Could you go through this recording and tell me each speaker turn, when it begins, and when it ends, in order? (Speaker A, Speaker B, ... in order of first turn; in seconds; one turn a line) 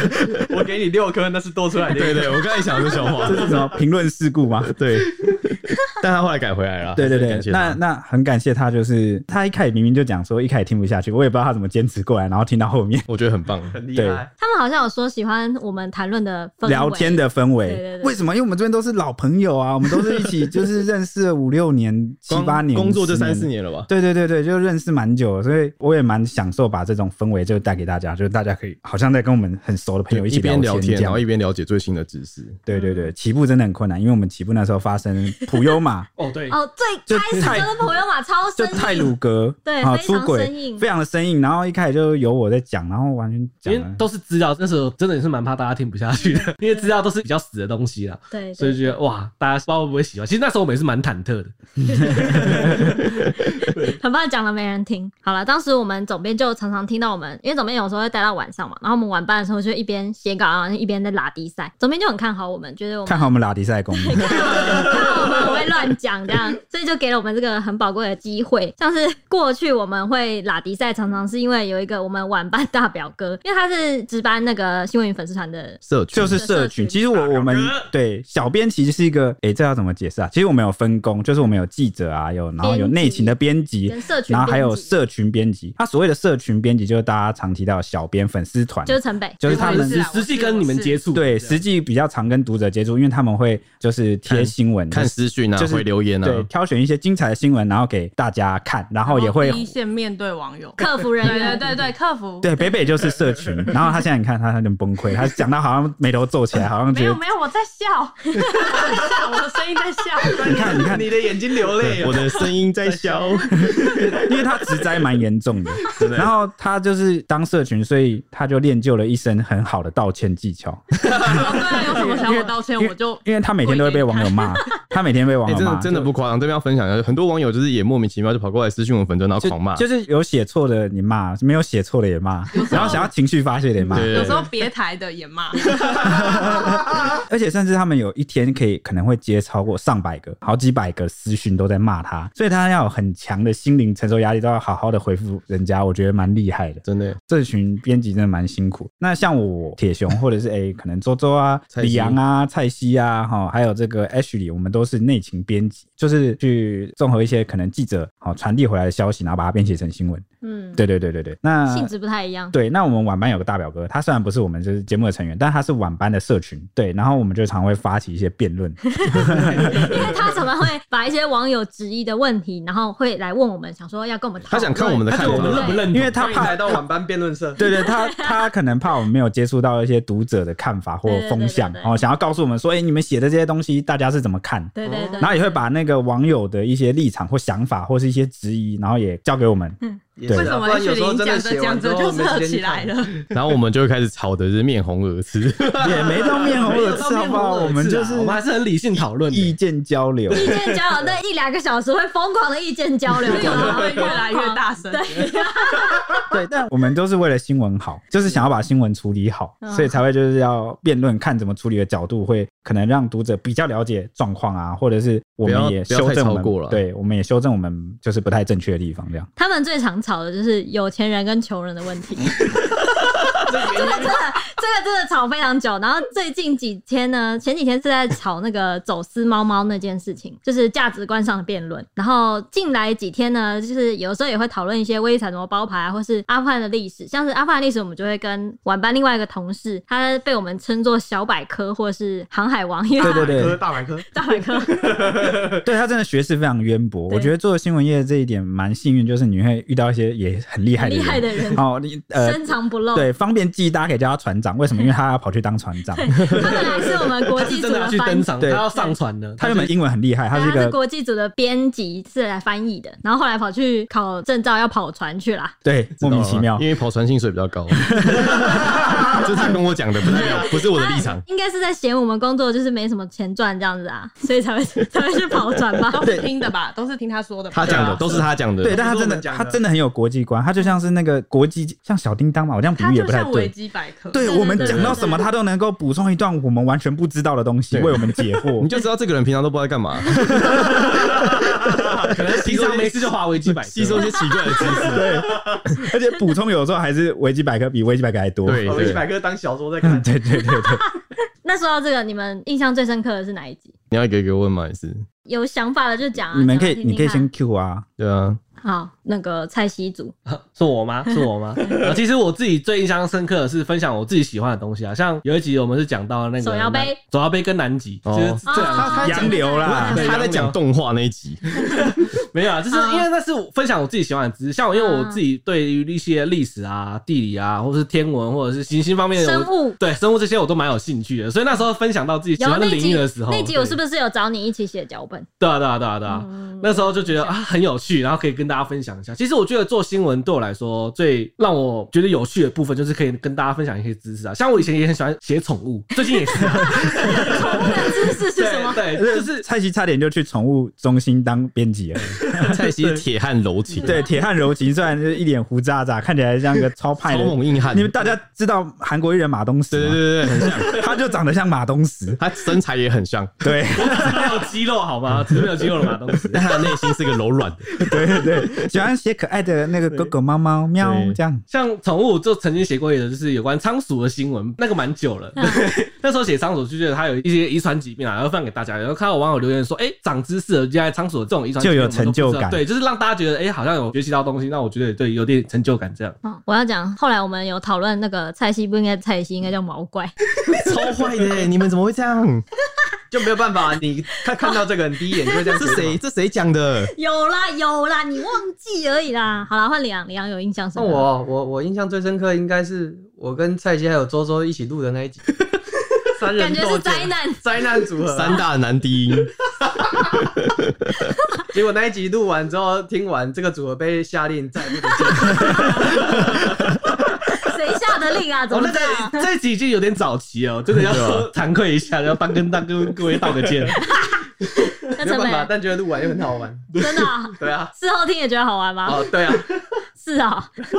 Speaker A: 0.4-3.6
Speaker B: 1.9-3.6
Speaker C: 3.2-4.7
Speaker B: 4.7-7.8
Speaker C: 6.9-13.1
Speaker B: 13.1-13.8
Speaker A: 13.7-14.3
Speaker C: 13.9-14.2
Speaker D: 14.4-18.1
Speaker C: 16.6-31.2
Speaker B: 22.3-23.9
Speaker B: 30.1-32.6
Speaker C: 32.6-36.1
Speaker D: 32.7-33.1
Speaker E: 36.2-36.6
Speaker D: 36.5-39.1
Speaker C: 37.1-37.7
Speaker C: 38.6-44.0
Speaker D: 39.6-40.8
Speaker E: 43.6-53.0
Speaker D: 48.3-49.0
Speaker D: 51.8-63.3
Speaker C: 63.0-65.0
Speaker D: 63.9-77.0
Speaker B: 75.8-76.4
Speaker C: 76.1-90.0
Speaker E: 77.1-77.9
Speaker D: 82.6-84.9
Speaker D: 88.9-89.5
Speaker E: 89.4-91.6
Speaker F: 89.5-91.1
Speaker C: 91.1-99.7
Speaker B: 94.3-96.5
Speaker F: 99.0-102.5
Speaker D: 100.8-101.7
Speaker C: 102.4-107.2
Speaker F: 106.9-110.8
Speaker A: 110.3-113.2
Speaker C: 110.4-111.1
Speaker B: 111.8-114.2
Speaker C: 113.6-126.0
Speaker B: 115.9-116.3
Speaker F: 121.2-124.7
Speaker B: 125.5-129.8
Speaker C: 129.4-134.3
Speaker F: 132.5-133.1
Speaker B: 132.7-133.0
Speaker B: 133.9-134.5
Speaker F: 134.0-135.7
Speaker C: 135.9-160.2
Speaker B: 146.8-147.2
Speaker B: 151.7-152.2
Speaker D: 160.4-160.8
Speaker C: 160.8-161.9
Speaker D: 161.7-162.5
Speaker C: 162.5-170.1
Speaker D: 169.0-175.9
Speaker B: 174.5-175.9
Speaker E: 175.1-176.5
Speaker C: 175.2-176.8
Speaker A: 176.2-177.6
Speaker C: 177.6-190.5
Speaker D: 177.7-178.5
Speaker D: 181.0-182.0
Speaker D: 184.8-185.6
Speaker A: 184.8-185.3
Speaker A: 190.2-193.3
Speaker F: 190.3-193.2
Speaker B: 193.3-196.2
Speaker C: 195.8-198.4
Speaker E: 195.9-199.5
Speaker C: 199.2-200.5
Speaker D: 200.3-206.2
Speaker E: 200.4-200.7
Speaker F: 203.2-205.3
Speaker C: 206.3-219.3
Speaker D: 209.6-210.0
Speaker B: 215.4-216.8
Speaker D: 219.4-222.8
Speaker D: 223.3-245.0
Speaker A: 223.4-224.2
Speaker A: 243.0-244.1
Speaker C: 243.0-243.6
Speaker A: 244.6-245.6
Speaker C: 245.6-256.4
Speaker D: 250.8-253.1
Speaker D: 255.9-259.0
Speaker E: 256.2-259.7
Speaker C: 258.4-258.7
Speaker C: 259.4-260.8
Speaker D: 260.3-265.5
Speaker C: 265.6-266.6
Speaker B: 266.0-271.2
Speaker C: 267.9-269.1
Speaker D: 270.1-276.0
Speaker F: 275.9-278.3
Speaker C: 276.0-276.3
Speaker B: 277.5-278.8
Speaker A: 277.6-278.0
Speaker A: 278.6-279.6
Speaker C: 278.6-283.5
Speaker F: 282.8-284.5
Speaker C: 284.1-288.7
Speaker D: 284.2-285.3
Speaker B: 284.6-285.0
Speaker B: 287.7-290.9
Speaker C: 290.4-291.1
Speaker E: 292.0-294.3
Speaker B: 292.4-295.2
Speaker D: 294.3-294.6
Speaker C: 294.7-298.9
Speaker B: 298.4-299.1
Speaker A: 298.6-300.1
Speaker C: 299.8-300.8
Speaker D: 300.5-303.7
Speaker B: 303.9-305.0
Speaker D: 305.2-307.3
Speaker C: 306.3-307.9
Speaker B: 308.0-308.4
Speaker D: 308.6-310.1
Speaker E: 310.2-320.6
Speaker D: 316.4-317.0
Speaker B: 318.1-319.2
Speaker D: 318.5-320.1
Speaker C: 318.8-320.2
Speaker B: 319.7-321.5
Speaker E: 321.8-333.8
Speaker D: 322.7-323.1
Speaker D: 324.7-325.2
Speaker D: 329.1-329.8
Speaker D: 332.4-335.3
Speaker E: 335.4-349.4
Speaker D: 336.1-337.4
Speaker D: 346.2-348.8
Speaker C: 348.9-352.6
Speaker B: 352.4-354.0
Speaker C: 353.8-362.2
Speaker B: 357.0-357.9
Speaker B: 359.7-360.8
Speaker B: 362.2-363.5
Speaker C: 363.4-364.5
Speaker E: 363.8-366.6
Speaker B: 366.3-368.1
Speaker C: 367.8-371.4
Speaker B: 370.8-371.2
Speaker E: 371.5-386.2
Speaker D: 375.4-375.7
Speaker C: 381.6-382.6
Speaker D: 386.2-390.1
Speaker B: 390.5-392.4
Speaker A: 393.1-396.0
Speaker B: 395.5-396.9
Speaker D: 396.9-401.1
Speaker A: 400.8-405.2
Speaker A: 406.1-408.4
Speaker D: 406.4-407.4
Speaker B: 408.1-409.3
Speaker A: 411.5-416.3
Speaker D: 415.4-416.2
Speaker E: 415.9-416.4
Speaker D: 417.2-419.2
Speaker E: 418.5-423.9
Speaker B: 420.7-421.3
Speaker D: 423.9-424.2
Speaker D: 424.8-425.5
Speaker A: 425.0-426.7
Speaker D: 426.8-429.1
Speaker A: 427.4-427.7
Speaker A: 428.9-429.5
Speaker D: 430.0-430.6